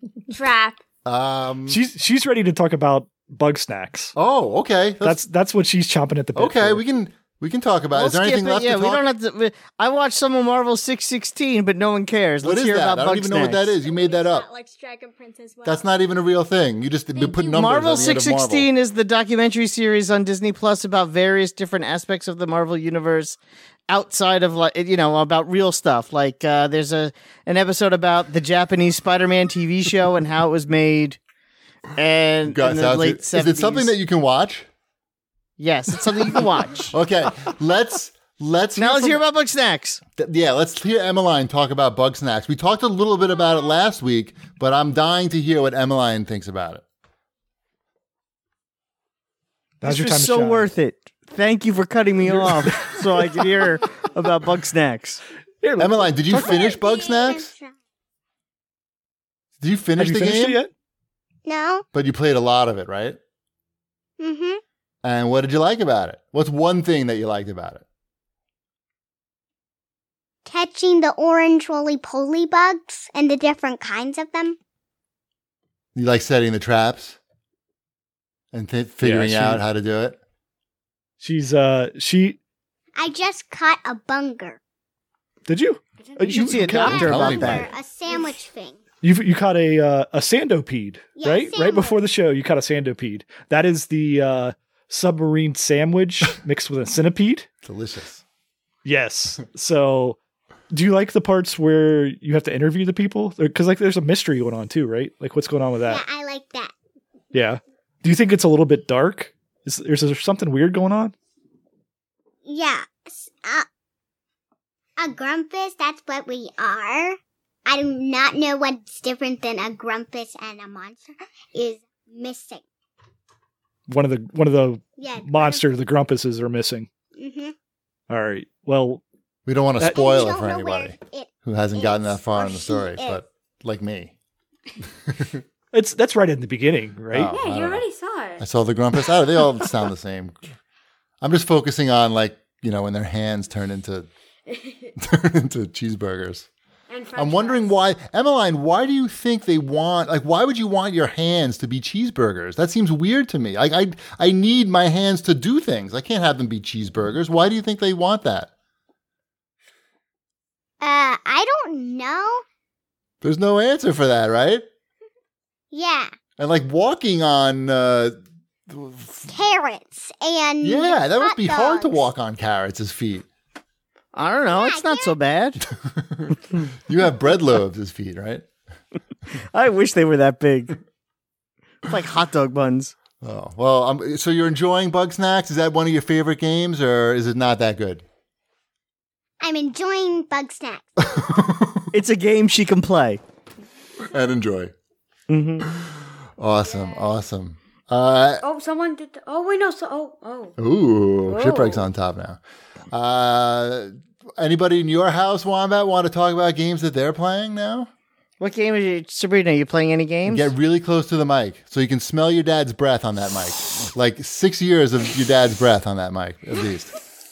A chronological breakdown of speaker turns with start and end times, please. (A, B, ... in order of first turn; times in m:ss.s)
0:00.3-0:00.8 A
0:01.0-0:01.8 B
0:01.7-0:04.1 C
0:04.2-0:05.2 B
0:05.0-0:06.8 C
0:06.4-0:09.0 B
0:07.9-0:13.7 D
0:12.4-0:14.5 B
0:13.8-0:15.8 A
0:15.6-0:18.7 B
0:17.2-0:18.1 A
0:17.2-0:23.4 D
0:23.9-0:31.2 D
0:32.0-0:33.9 D
0:32.4-0:34.7 B
0:35.6-0:37.0 D
0:36.9-0:39.2 B
0:38.8-0:40.0 D
0:40.2-0:46.8 B
0:49.8-0:50.7 C
0:49.8-0:55.2 D
0:52.2-0:53.5 C
0:55.6-0:56.6 C
0:55.8-0:57.5 B
0:56.3-0:57.7 E
0:59.6-1:00.6 B
1:00.0-1:00.7 C
1:01.4-1:01.9 E
1:01.9-1:03.2 B
1:04.2-1:04.6 E
1:05.0-1:07.8 B
1:10.5-1:14.6 E
1:16.0-1:17.2 B
1:18.5-1:20.2 B
1:19.0-1:19.6 C
1:21.2-1:22.4 C
1:23.0-1:24.6 E
1:25.5-1:27.3 C
1:26.2-1:27.7 D
1:26.7-1:28.8 E
1:26.8-1:27.7 B
1:29.0-1:37.5 C
1:31.2-1:32.0 E
1:37.6-1:38.2 B
1:38.8-1:40.2 C
1:40.7-1:46.0 C
1:45.8-1:46.7 E
1:47.3-1:51.1 C
1:52.5-1:53.7 E
1:55.0-2:02.6 E
2:03.9-2:06.9 C
2:05.0-2:05.6 E
2:07.2-2:07.6 E
2:08.1-2:09.0 C
2:09.5-2:14.1 B
2:09.9-2:13.2 E
2:15.1-2:15.4 B
2:15.7-2:17.3 C
2:17.1-2:17.9 B
2:17.5-2:18.4 F
2:18.4-2:20.4 B
2:21.2-2:24.1 B
2:25.0-2:26.5 B
2:26.9-2:27.4 F
2:27.2-2:38.5 B
2:40.8-2:42.4 E
2:43.2-2:44.6 B
2:45.7-2:46.1 E
2:46.4-2:48.2 B
2:48.7-2:49.3 B
2:49.3-2:52.0 E
2:50.6-2:53.3 B
2:54.1-2:55.6 D
2:54.5-2:55.2 E
2:55.8-2:58.5 B
2:59.5-3:00.8 D
3:01.9-3:02.9 D
3:03.2-3:08.0 B
3:09.4-3:10.9 E
3:11.1-3:11.9 B
3:11.9-3:13.2 D
3:14.1-3:14.7 B
3:15.3-3:15.7 D
3:15.7-3:18.4 B
3:18.4-3:20.5 F
3:20.6-3:22.4 B
3:21.3-3:21.8 F
3:22.9-3:27.9 B
3:28.4-3:30.5 D
3:30.3-3:36.9 B